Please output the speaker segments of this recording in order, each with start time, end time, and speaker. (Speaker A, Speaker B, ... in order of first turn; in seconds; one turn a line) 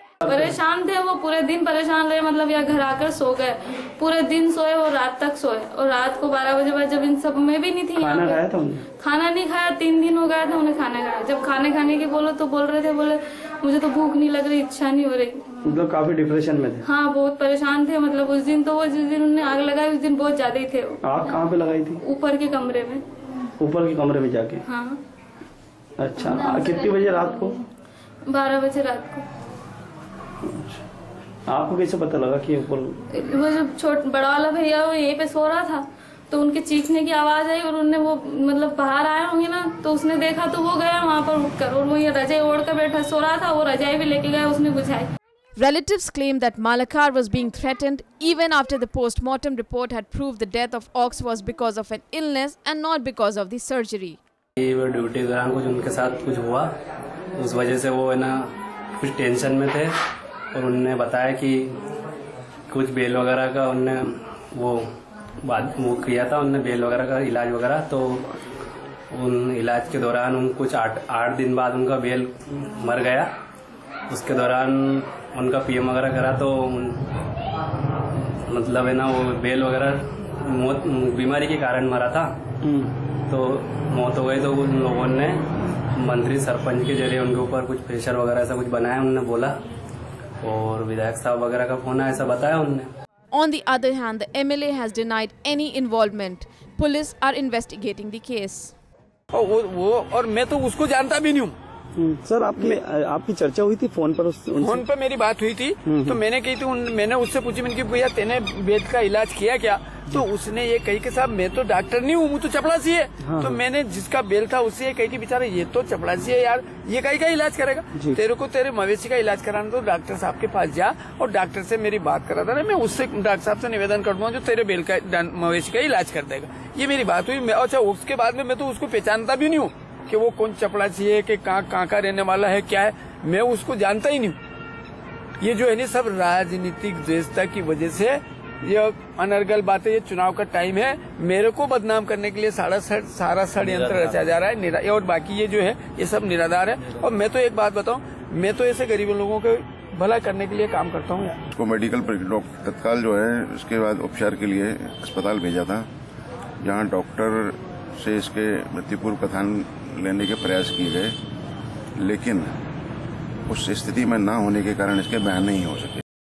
Speaker A: 0.2-8.4
Speaker B: 8.0-8.8
Speaker A: 9.0-15.5
Speaker B: 15.6-16.8
Speaker A: 16.8-21.4
Speaker B: 21.0-22.0
Speaker A: 22.0-23.0
Speaker B: 23.6-24.6
Speaker A: 24.7-25.0
Speaker B: 26.0-27.6
Speaker A: 26.2-27.5
Speaker A: 28.3-29.2
Speaker B: 30.4-30.8
Speaker B: 31.5-33.0
Speaker A: 33.1-45.1
Speaker C: 45.6-54.2
Speaker D: 54.6-56.7
Speaker D: 57.4-59.9
Speaker D: 60.5-61.8
Speaker D: 62.7-64.8
Speaker D: 65.4-68.3
Speaker D: 69.1-73.3
Speaker D: 74.1-77.0
Speaker D: 78.5-82.3
Speaker B: 82.6-83.0
Speaker D: 83.3-89.6
Speaker D: 90.4-92.9
Speaker C: 93.3-98.7
Speaker E: 99.3-101.5
Speaker B: 102.0-104.8
Speaker E: 104.6-134.4
Speaker B: 105.8-106.2
Speaker B: 113.2-113.6
Speaker E: 135.4-151.4
Speaker F: 151.5-155.9
Speaker F: 156.6-161.1
Speaker F: 162.0-162.5
Speaker F: 163.5-166.0